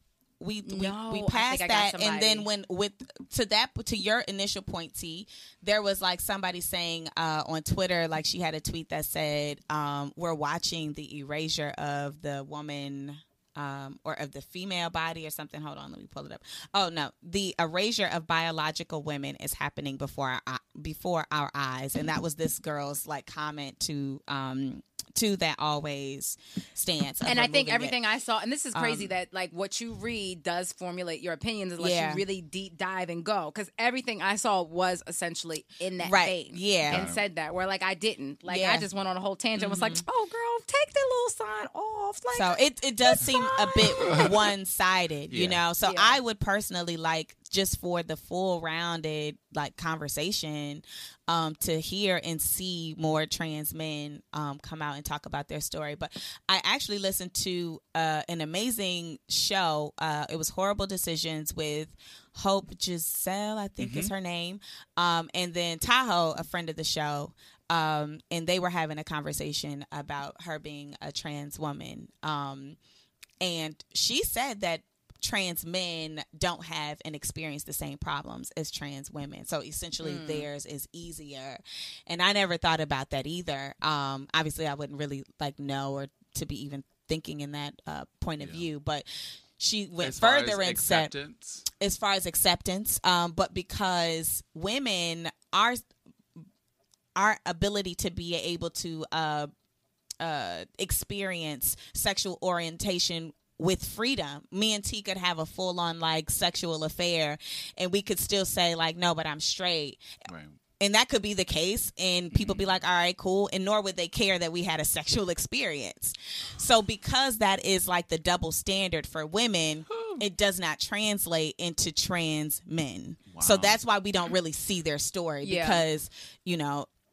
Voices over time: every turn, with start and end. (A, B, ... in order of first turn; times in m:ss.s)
0:00.4-0:28.0 A
0:00.6-0:02.5 B
0:27.2-0:44.3 B
0:28.7-0:29.1 A
0:31.8-0:32.2 A
0:36.0-0:37.1 A
0:36.9-0:37.2 C
0:38.5-0:38.9 A
0:39.6-0:40.0 A
0:42.3-1:12.8 A
0:44.1-0:44.3 C
0:45.3-0:45.6 C
0:45.8-0:46.2 B
1:03.8-1:04.1 C
1:13.4-1:29.1 A
1:20.0-1:20.5 B
1:28.4-1:28.7 C
1:29.6-1:31.1 A
1:30.0-1:31.7 C
1:31.8-1:35.8 A
1:37.2-1:39.5 A
1:40.2-1:50.0 A
1:50.3-1:50.6 C
1:50.8-2:06.9 A
1:52.3-1:52.8 C
1:59.9-2:00.2 C
2:03.3-2:03.8 C
2:05.4-2:05.8 B